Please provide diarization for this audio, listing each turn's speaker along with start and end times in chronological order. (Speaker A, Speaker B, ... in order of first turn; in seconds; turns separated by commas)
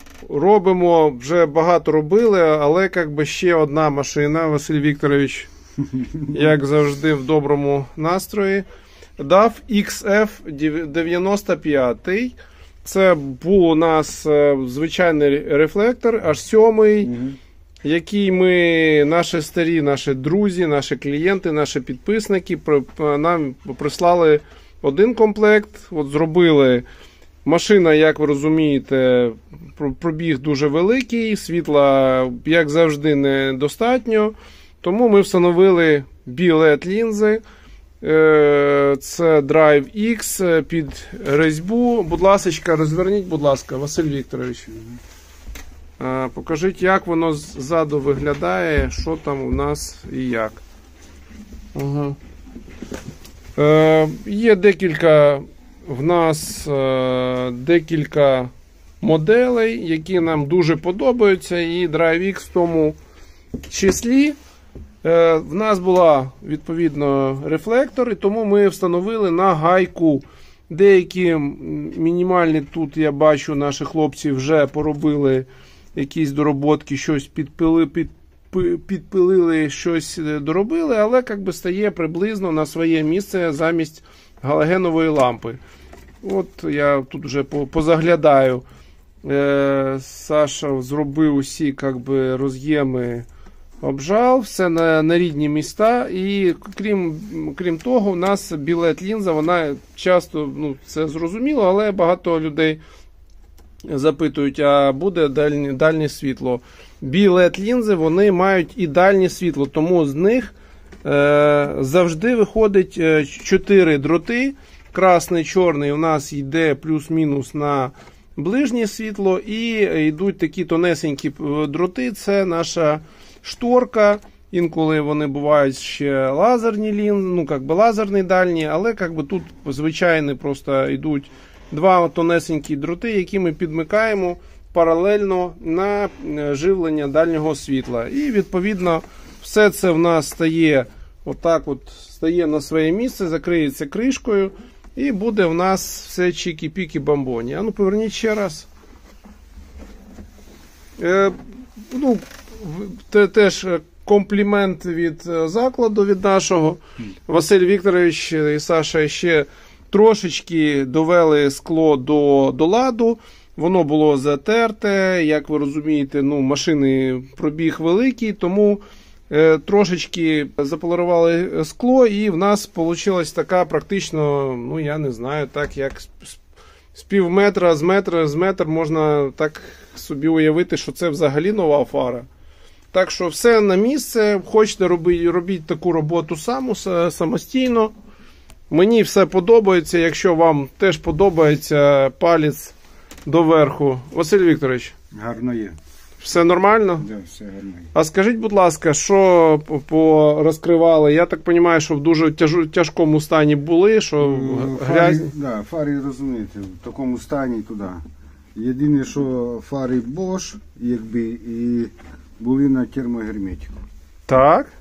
Speaker A: 0.2-5.5, Speaker A: 6.2-8.7, Speaker A: 9.2-17.1, Speaker B: 17.1-17.4, Speaker A: 17.8-26.8, Speaker A: 27.4-37.4, Speaker A: 38.0-44.7, Speaker A: 46.0-50.6, Speaker A: 51.7-52.2, Speaker A: 53.5-63.0, Speaker A: 63.6-64.4, Speaker A: 65.0-85.6, Speaker A: 86.2-88.6, Speaker A: 89.2-93.2, Speaker A: 93.8-102.8, Speaker A: 103.8-110.5, Speaker A: 111.0-148.7, Speaker A: 151.0-176.4, Speaker A: 176.9-182.2, Speaker A: 182.9-187.9, Speaker A: 188.7-192.7, Speaker A: 193.2-194.9, Speaker B: 195.1-195.8, Speaker A: 196.2-197.1, Speaker B: 197.0-197.9, Speaker A: 197.9-205.3, Speaker B: 204.2-208.0, Speaker B: 208.5-213.8, Speaker A: 214.3-214.7